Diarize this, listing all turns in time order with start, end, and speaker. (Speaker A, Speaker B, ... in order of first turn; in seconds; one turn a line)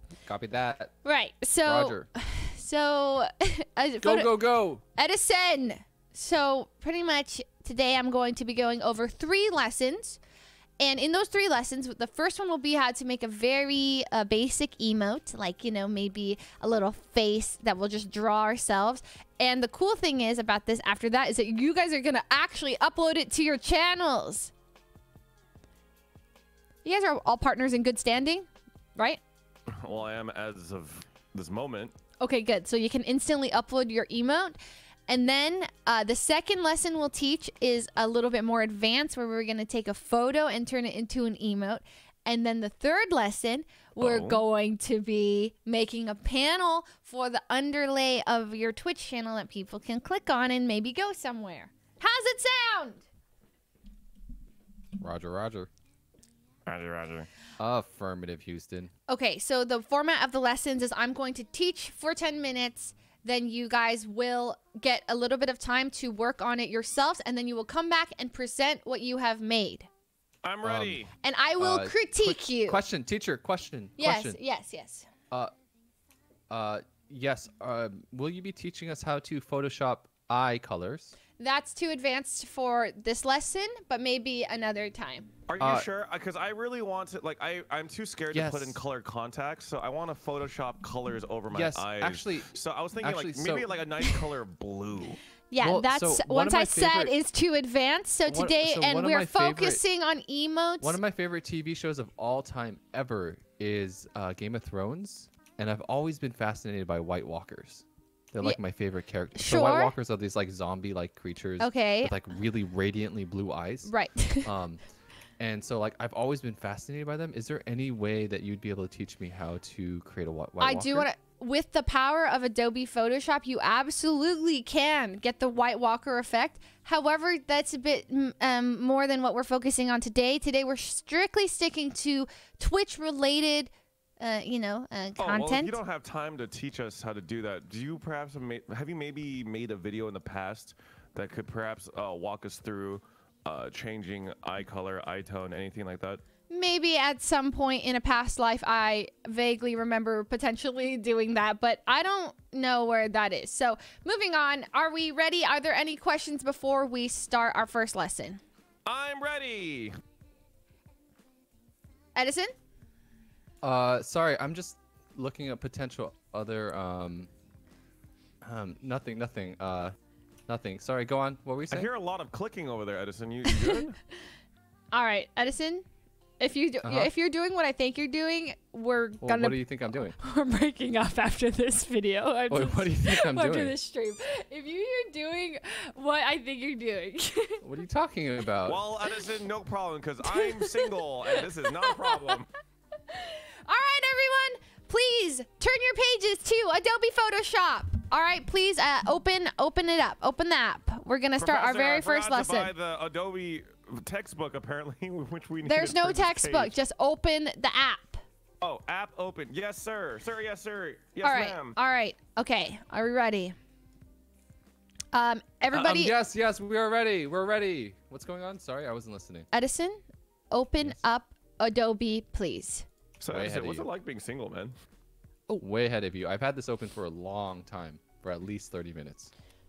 Speaker A: 0.2-0.9
Speaker B: 1.0-4.4
Speaker A: 1.6-2.1
Speaker A: 4.0-4.8
Speaker B: 4.9-10.2
Speaker B: 10.8-24.5
Speaker B: 26.8-29.2
Speaker C: 29.7-31.9
Speaker B: 32.2-53.0
Speaker C: 44.0-44.4
Speaker A: 55.0-55.7
Speaker C: 56.6-57.3
Speaker A: 57.6-58.9
Speaker B: 59.1-69.9
Speaker C: 70.4-71.1
Speaker A: 70.6-71.0
Speaker B: 71.2-72.8
Speaker A: 71.6-74.4
Speaker B: 74.0-75.1
Speaker A: 76.5-81.2
Speaker B: 81.4-85.4
Speaker C: 85.5-95.2
Speaker A: 85.6-85.9
Speaker A: 88.3-88.8
Speaker A: 91.5-93.7
Speaker B: 95.5-101.0
Speaker A: 95.6-97.2
Speaker A: 98.3-99.8
Speaker A: 100.8-114.8
Speaker B: 109.3-109.9
Speaker B: 111.6-112.1
Speaker B: 113.9-114.5
Speaker A: 115.4-121.1
Speaker B: 120.6-135.8
Speaker C: 135.2-146.2
Speaker B: 146.5-158.4
Speaker C: 158.9-159.9
Speaker B: 162.1-162.5
Speaker A: 163.6-167.3
Speaker A: 168.4-169.9
Speaker A: 170.5-171.9
Speaker C: 171.7-174.0
Speaker B: 173.4-173.8
Speaker B: 174.9-175.9
Speaker B: 176.4-187.6
Speaker A: 176.8-177.1
Speaker A: 179.2-180.2
Speaker A: 182.5-183.7
Speaker A: 187.6-188.8
Speaker C: 188.6-192.5
Speaker B: 190.2-192.4
Speaker B: 193.1-202.7
Speaker C: 201.4-206.7
Speaker B: 205.6-208.2
Speaker C: 208.6-211.8
Speaker B: 211.2-213.5
Speaker B: 215.1-216.1
Speaker A: 215.7-219.5
Speaker B: 219.5-222.9
Speaker C: 223.2-224.7
Speaker A: 223.3-223.9
Speaker A: 225.6-229.3